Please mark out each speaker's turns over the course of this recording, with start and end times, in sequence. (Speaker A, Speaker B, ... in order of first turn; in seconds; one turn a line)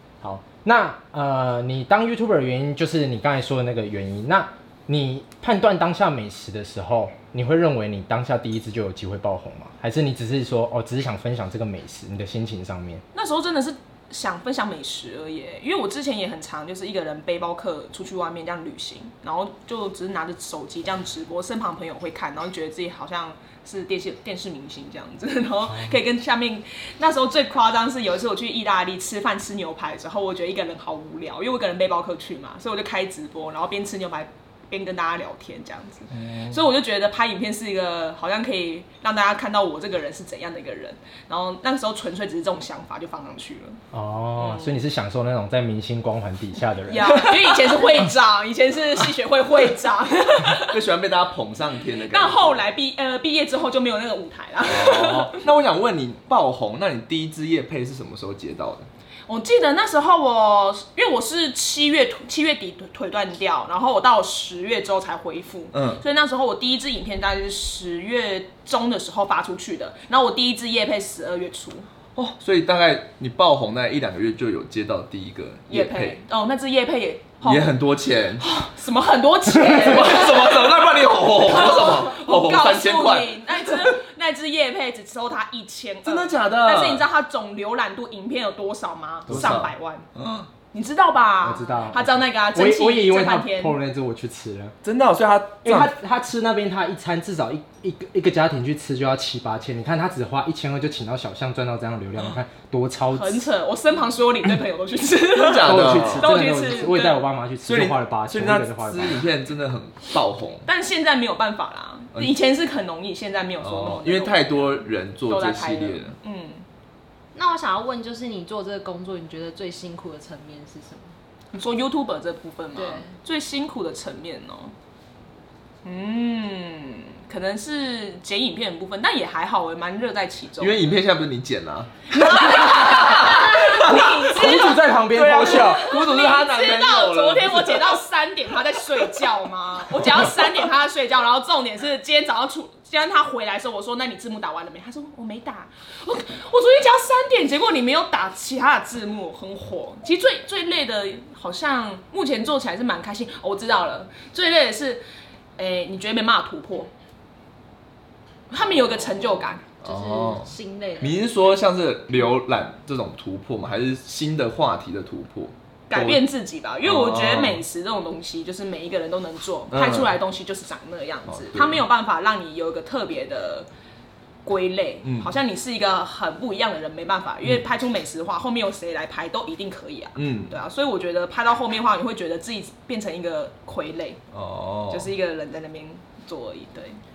Speaker A: 0.2-13.0
Speaker B: 13.1-43.8
Speaker A: 43.9-47.3
Speaker B: 44.4-44.8
Speaker B: 46.9-50.7
Speaker C: 50.7-52.6
Speaker B: 52.0-55.4
Speaker C: 54.6-58.9
Speaker B: 59.3-71.9
Speaker C: 65.7-66.0
Speaker C: 72.1-76.2
Speaker B: 75.7-77.8
Speaker C: 77.4-78.5
Speaker B: 78.4-90.1
Speaker C: 79.7-83.9
Speaker C: 86.0-87.0
Speaker C: 89.3-90.5
Speaker B: 90.7-93.8
Speaker A: 91.4-94.7
Speaker C: 94.8-95.9
Speaker A: 95.6-103.5
Speaker B: 103.1-107.2
Speaker C: 105.3-106.3
Speaker A: 105.6-109.3
Speaker C: 107.6-110.7
Speaker B: 110.7-114.6
Speaker C: 113.6-116.2
Speaker B: 115.3-116.6
Speaker D: 117.3-121.1
Speaker B: 121.5-124.7
Speaker D: 122.7-123.1
Speaker B: 125.8-130.8
Speaker C: 130.6-138.0
Speaker B: 132.1-155.0
Speaker A: 134.0-135.8
Speaker B: 155.6-156.9
Speaker B: 158.5-159.6
Speaker C: 159.8-166.2
Speaker D: 159.8-161.2
Speaker B: 165.9-173.7
Speaker C: 166.8-167.6
Speaker C: 169.7-170.2
Speaker C: 171.3-171.8
Speaker B: 174.4-184.2
Speaker C: 175.0-175.3
Speaker C: 180.2-180.6
Speaker C: 184.3-185.1
Speaker B: 184.9-187.0